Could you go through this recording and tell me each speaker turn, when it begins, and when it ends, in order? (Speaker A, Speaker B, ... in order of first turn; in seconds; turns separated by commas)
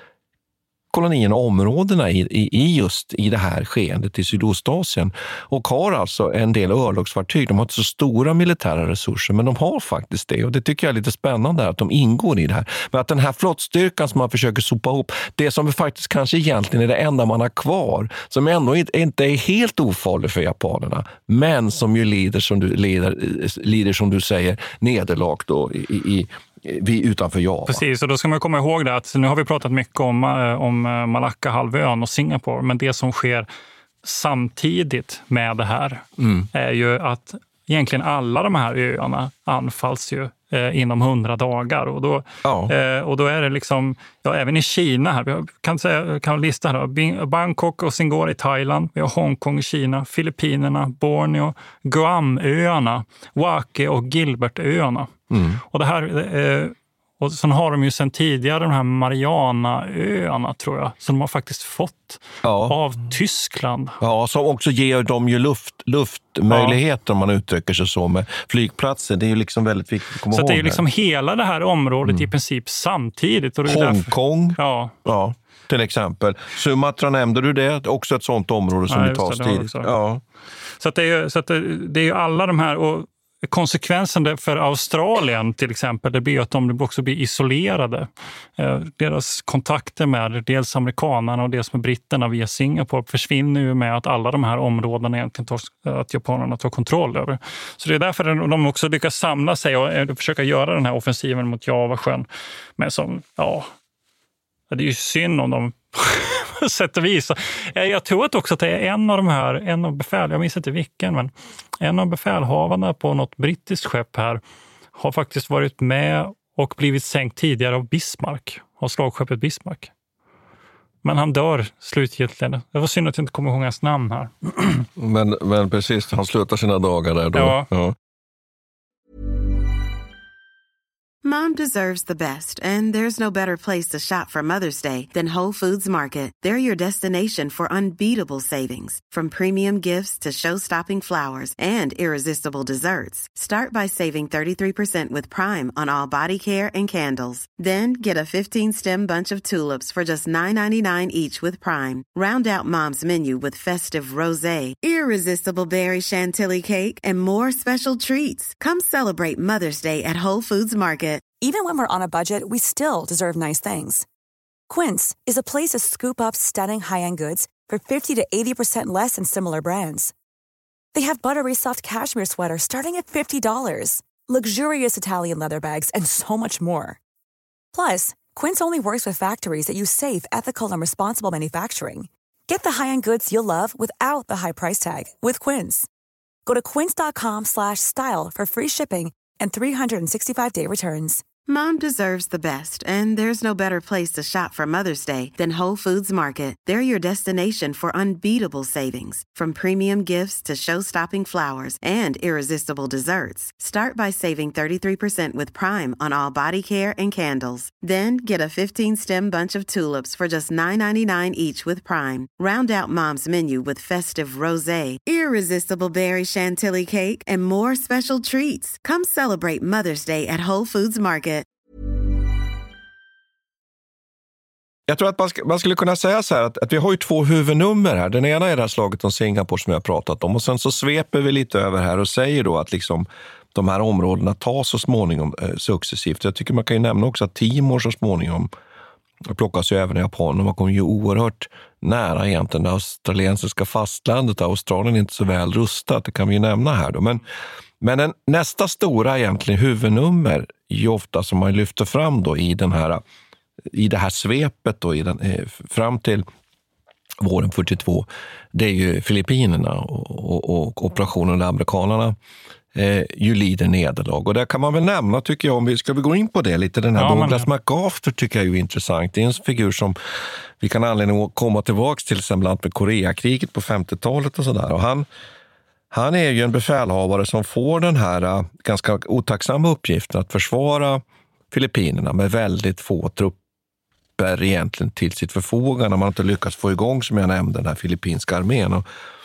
Speaker A: 0.9-27.8, Speaker B: 27.7-33.5, Speaker B: 34.0-55.1, Speaker A: 36.2-36.5, Speaker A: 42.4-42.7, Speaker A: 55.3-55.6, Speaker B: 55.7-64.0, Speaker A: 62.4-62.8, Speaker A: 64.0-70.8, Speaker B: 66.5-66.8, Speaker B: 70.3-75.0, Speaker A: 72.0-72.3, Speaker A: 73.6-80.2, Speaker B: 78.9-79.9, Speaker B: 80.8-102.3, Speaker B: 102.8-103.7, Speaker B: 104.7-114.4, Speaker B: 115.0-119.9, Speaker B: 121.0-124.9, Speaker A: 125.0-128.0, Speaker B: 127.3-127.7, Speaker C: 131.2-161.2, Speaker D: 161.4-164.1, Speaker D: 164.7-170.1, Speaker D: 170.9-177.0, Speaker D: 177.7-185.9, Speaker D: 186.4-191.2, Speaker C: 191.5-221.4, Speaker A: 224.9-238.5, Speaker A: 239.2-247.2, Speaker A: 247.8-253.0, Speaker A: 253.7-256.3, Speaker A: 257.2-262.2, Speaker A: 262.7-270.0, Speaker B: 266.9-267.5, Speaker A: 270.6-275.1, Speaker A: 275.9-283.4, Speaker A: 284.2-288.9